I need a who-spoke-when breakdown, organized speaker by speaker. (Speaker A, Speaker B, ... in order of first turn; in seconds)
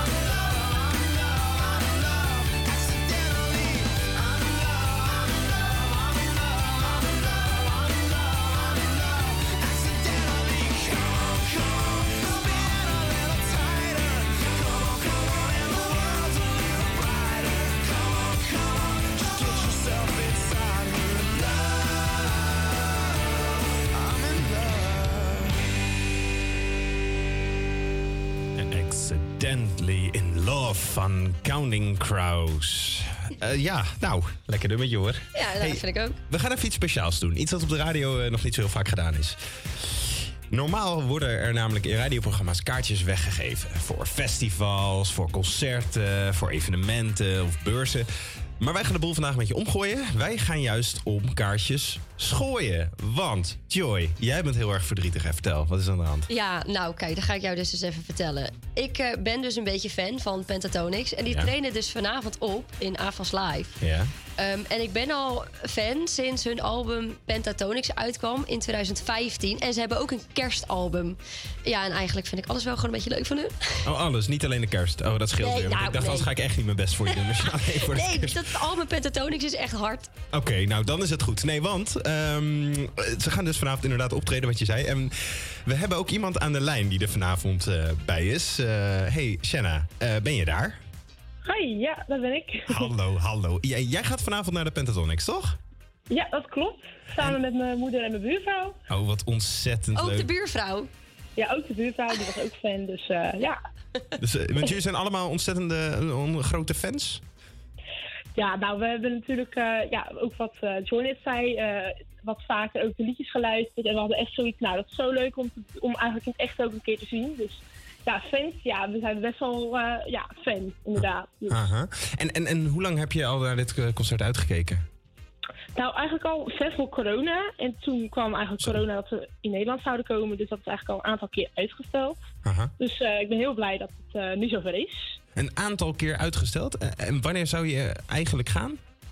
Speaker A: 28.6-39.4, 40.5-48.1, 48.6-56.3, 63.8-64.1, 73.8-78.5, 80.3-90.8, 92.7-95.6, 98.9-100.3, 104.2-107.2, 121.0-124.8, 132.4-132.7, 135.4-138.8
Speaker B: 35.3-36.2, 56.3-63.8, 64.4-73.6, 75.4-76.3, 77.9-80.1, 100.0-100.9
Speaker C: 91.5-92.8, 96.1-98.7, 101.4-103.6, 108.4-121.6, 125.8-132.2, 132.8-135.1